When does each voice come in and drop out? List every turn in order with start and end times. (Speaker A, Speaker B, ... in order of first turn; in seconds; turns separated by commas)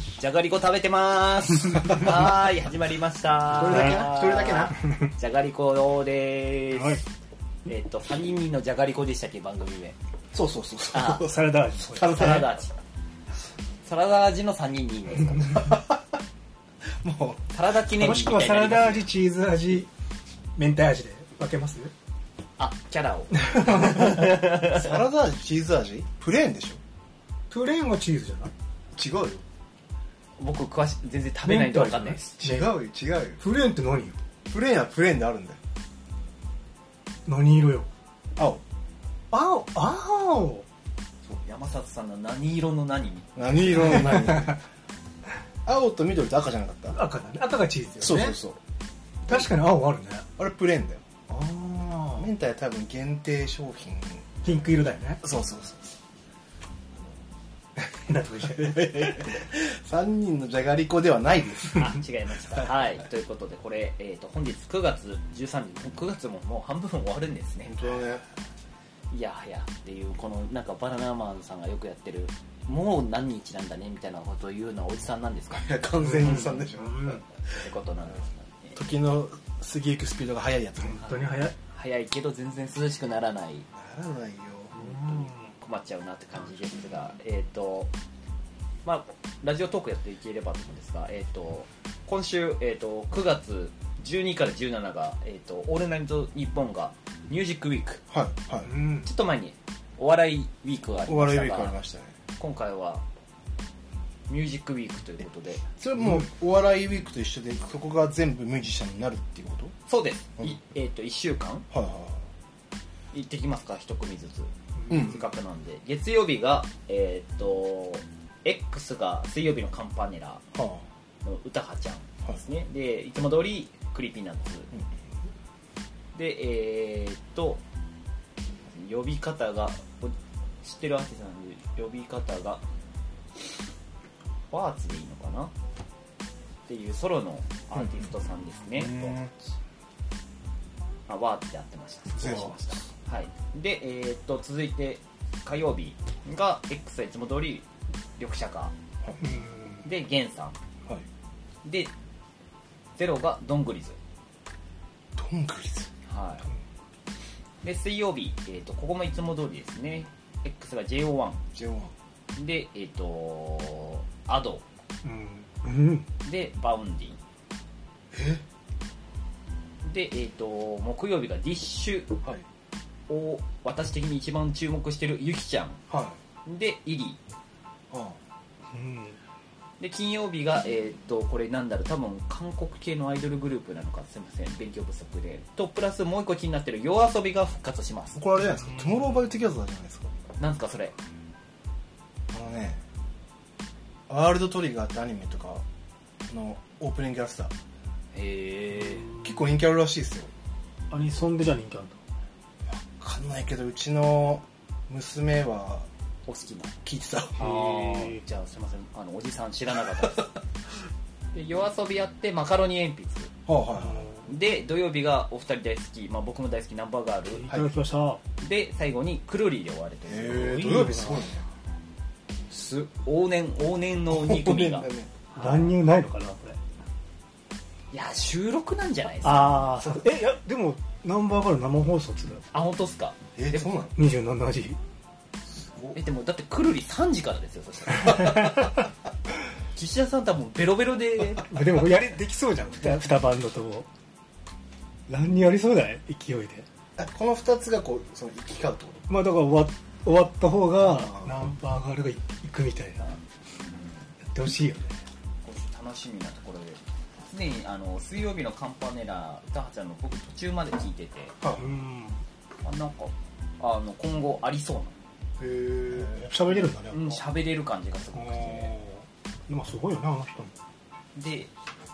Speaker A: 0.1-7.0, Speaker B: 3.5-4.8, Speaker C: 3.6-4.0, Speaker C: 6.7-7.0, Speaker A: 7.7-9.9, Speaker B: 10.3-12.5, Speaker A: 10.9-11.2, Speaker C: 11.2-12.4, Speaker A: 11.9-12.7, Speaker A: 13.8-15.7, Speaker B: 15.5-16.0, Speaker B: 17.0-17.4, Speaker A: 17.5-19.1, Speaker C: 17.8-19.9, Speaker C: 20.6-21.9, Speaker A: 22.6-24.9, Speaker C: 23.4-24.3, Speaker B: 24.1-26.8, Speaker C: 27.5-28.5, Speaker B: 28.9-29.4, Speaker A: 30.4-32.3, Speaker C: 31.4-32.7, Speaker B: 32.4-33.4, Speaker C: 33.4-34.2, Speaker B: 34.5-35.6, Speaker C: 37.2-37.9, Speaker B: 38.4-38.6, Speaker C: 39.3-40.6, Speaker A: 41.3-44.1, Speaker B: 43.4-44.6, Speaker B: 45.6-47.0, Speaker C: 46.9-48.4, Speaker B: 48.0-48.6, Speaker C: 49.3-50.3, Speaker B: 50.4-51.0, Speaker C: 51.3-52.3, Speaker B: 52.1-54.6, Speaker C: 54.4-55.2, Speaker B: 55.2-55.9, Speaker C: 57.8-59.3, Speaker B: 58.4-61.9, Speaker A: 61.7-67.7, Speaker B: 67.7-68.2, Speaker A: 69.1-75.7, Speaker B: 75.5-77.6, Speaker C: 76.0-77.2, Speaker A: 77.5-78.8, Speaker B: 78.7-81.1, Speaker C: 80.8-81.5, Speaker A: 81.0-83.7, Speaker B: 83.7-84.7, Speaker A: 84.7-87.9, Speaker C: 85.0-85.5, Speaker A: 88.8-98.0, Speaker B: 98.1-98.7, Speaker C: 98.6-99.1, Speaker A: 99.0-101.8, Speaker B: 101.1-102.1, Speaker A: 102.4-103.0, Speaker A: 104.3-105.6, Speaker B: 105.8-109.7, Speaker C: 106.0-106.2, Speaker A: 109.9-111.7, Speaker B: 111.7-112.2, Speaker A: 113.1-120.4, Speaker B: 114.9-115.2, Speaker B: 120.5-120.8, Speaker A: 121.2-124.7, Speaker A: 126.1-127.6, Speaker A: 128.7-132.6, Speaker A: 134.5-135.5, Speaker A: 136.7-139.2, Speaker B: 138.7-139.3, Speaker A: 141.1-147.7, Speaker B: 142.2-142.8, Speaker A: 148.2-148.7, Speaker C: 149.2-149.8, Speaker A: 149.8-150.6, Speaker A: 151.6-151.9, Speaker A: 153.0-154.0, Speaker B: 155.2-155.9, Speaker A: 156.1-156.5, Speaker A: 157.6-161.4, Speaker B: 161.5-161.9, Speaker A: 162.3-164.6, Speaker C: 165.0-166.1, Speaker A: 166.2-167.2, Speaker B: 168.1-168.4, Speaker A: 169.8-172.1, Speaker A: 173.1-175.8, Speaker B: 175.9-176.2, Speaker A: 176.4-177.2, Speaker B: 177.9-178.2, Speaker C: 178.7-179.2, Speaker A: 179.8-188.2, Speaker B: 188.2-190.1, Speaker C: 188.6-189.3, Speaker A: 190.4-190.9, Speaker B: 192.3-192.8, Speaker B: 194.1-195.6, Speaker B: 196.3-197.5, Speaker A: 198.1-199.1, Speaker B: 199.2-200.3, Speaker C: 200.9-202.0, Speaker B: 202.7-205.9, Speaker A: 206.2-206.7, Speaker B: 206.8-207.4, Speaker A: 207.4-210.3, Speaker C: 207.4-208.2, Speaker A: 211.3-213.3, Speaker B: 213.5-214.1, Speaker C: 213.8-214.2, Speaker A: 214.2-217.4, Speaker C: 217.3-218.2, Speaker A: 218.4-220.6, Speaker B: 220.1-221.4, Speaker C: 220.2-221.3, Speaker A: 222.5-225.7, Speaker B: 224.1-225.1, Speaker C: 225.3-226.6, Speaker A: 227.9-229.8, Speaker C: 229.2-232.4, Speaker A: 232.5-233.7, Speaker B: 233.4-233.9, Speaker C: 233.9-234.8, Speaker B: 235.5-236.0, Speaker A: 235.9-238.7, Speaker C: 238.1-238.6, Speaker A: 239.7-241.5, Speaker C: 241.4-243.9, Speaker C: 245.1-246.7, Speaker B: 247.0-249.1, Speaker C: 249.1-253.2, Speaker B: 250.8-251.4, Speaker A: 253.6-254.1, Speaker C: 254.3-255.0, Speaker A: 255.4-261.3, Speaker C: 261.6-262.2, Speaker A: 262.6-264.9, Speaker B: 265.4-266.3, Speaker C: 266.0-267.2, Speaker A: 266.5-268.7, Speaker C: 268.1-270.5, Speaker A: 271.1-271.5